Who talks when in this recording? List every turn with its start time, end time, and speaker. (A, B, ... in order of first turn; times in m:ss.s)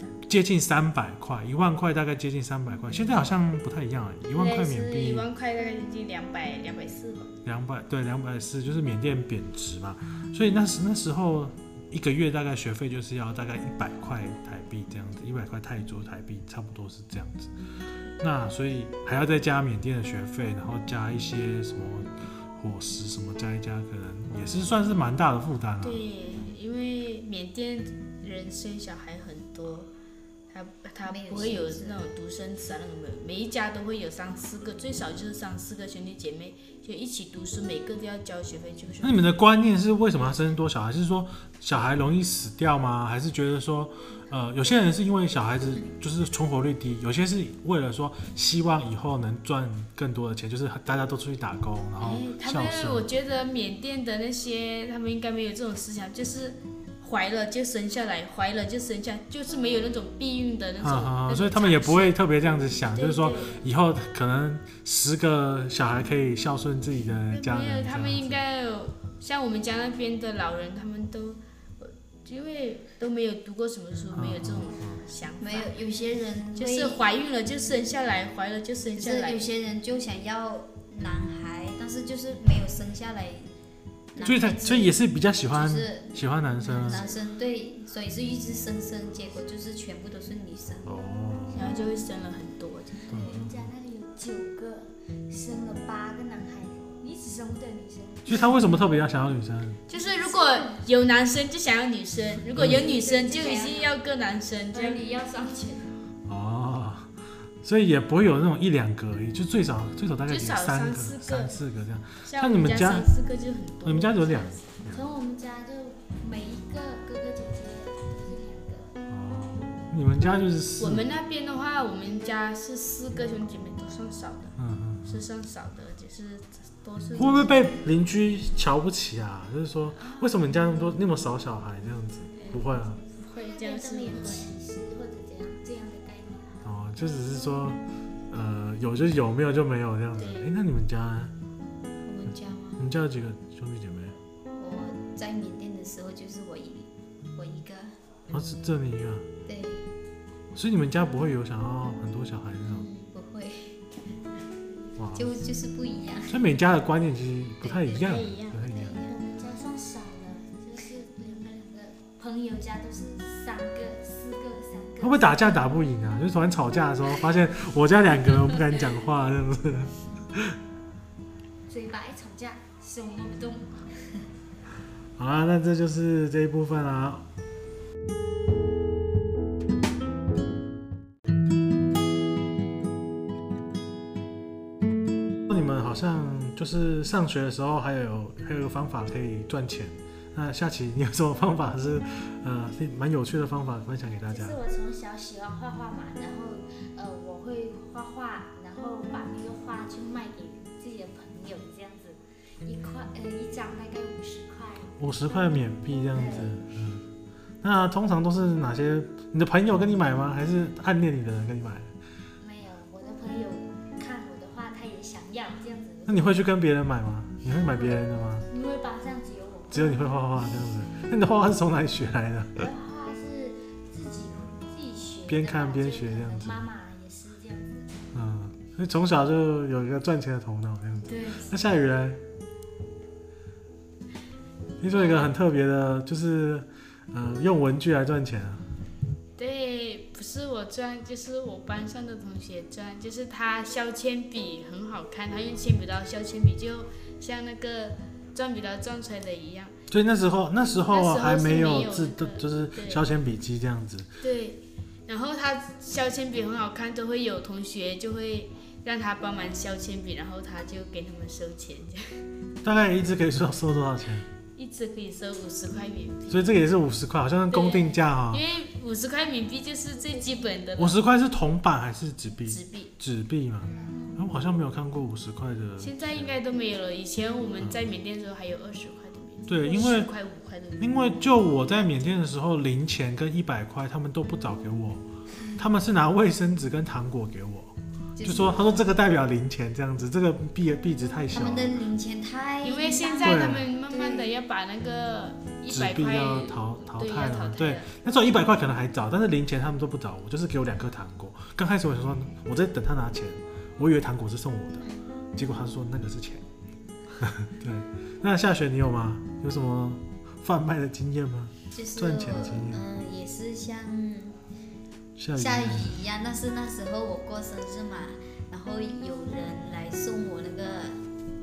0:00.3-0:05.3 A
0:04.3-0:07.3 B
0:07.4-0:17.5 A
0:18.2-0:26.0 A
0:25.8-0:29.9 B
0:30.5-0:39.2 B
0:31.0-0:32.0 C
0:39.0-0:53.1 A
0:52.0-1:02.2 B
1:00.8-1:08.4 A
1:02.9-1:03.6 B
1:07.3-1:15.7 B
1:14.1-1:15.0 A
1:15.4-1:17.1 C
1:16.6-1:19.5 B
1:18.9-1:23.5 C
1:24.1-1:25.0 C
1:24.2-1:27.0 A
1:25.5-1:31.0 C
1:26.6-1:27.2 D
1:30.8-1:31.8 A
1:31.5-1:33.1 B
1:33.1-1:33.6 A
1:33.1-1:38.5 D
1:38.3-1:39.8 A
1:39.9-1:45.0 B
1:39.9-1:40.8 D
1:42.6-1:42.8 A
1:42.6-1:44.0 D
1:44.7-1:46.0 D
1:46.3-1:47.1 A
1:47.6-1:53.1 A
1:50.3-1:51.6 B
1:52.2-1:54.6 B
1:53.8-1:55.0 A
1:54.9-1:58.9 D
1:59.1-2:01.0 A
2:00.8-2:04.5 B
2:04.6-2:05.2 A
2:05.0-2:07.7 B
2:07.2-2:13.0 A
2:10.0-2:10.6 D
2:12.3-2:16.6 D
2:13.1-2:14.5 B
2:16.6-2:17.8 A
2:18.3-2:21.3 A
2:20.2-2:20.5 B
2:22.0-2:22.9 C
2:22.8-2:24.2 A
2:24.6-2:28.0 C
2:28.3-2:29.3 A
2:29.5-2:29.9 C
2:30.6-2:32.9 A
2:32.6-2:33.8 C
2:35.0-2:35.3 A
2:35.1-2:36.4 C
2:36.3-2:39.0 A
2:37.6-2:38.7 B
2:38.7-2:45.7 D
2:45.0-2:50.6 A
2:51.7-2:54.3 D
2:55.2-2:57.2 A
3:05.5-3:14.6 A
3:14.1-3:25.5 D
3:25.0-3:27.0 A
3:26.1-3:26.7 D
3:27.6-3:31.9 A
3:32.4-3:36.4 D
3:36.1-3:38.5 A
3:37.7-3:40.2 D
3:39.7-3:42.7 A
3:42.6-3:48.0 D
3:45.3-3:46.6 A
3:48.1-3:52.2 A
3:51.1-3:51.4 B
3:51.1-3:51.6 D
3:54.8-3:58.6 A
3:54.9-3:55.3 D
3:59.4-4:09.8 B
4:09.9-4:14.1 A
4:10.9-4:13.0 B
4:14.2-4:22.3 B
4:22.6-4:24.3 A
4:24.6-4:26.6 B
4:26.3-4:28.4 A
4:27.5-4:31.0 B
4:30.8-4:36.4 A
4:32.5-4:32.9 B
4:33.9-4:34.2 D
4:35.8-4:40.9 B
4:39.5-4:40.1 A
4:40.8-4:45.0 A
4:45.6-4:51.8 A
4:48.2-4:48.9 C
4:51.3-4:54.4 C
4:52.6-4:58.0 B
4:53.2-4:53.7 A
4:55.7-5:06.4 A
5:04.8-5:05.1 C
5:07.2-5:12.8 A
5:11.7-5:14.4 C
5:15.2-5:16.0 A
5:15.3-5:21.0 C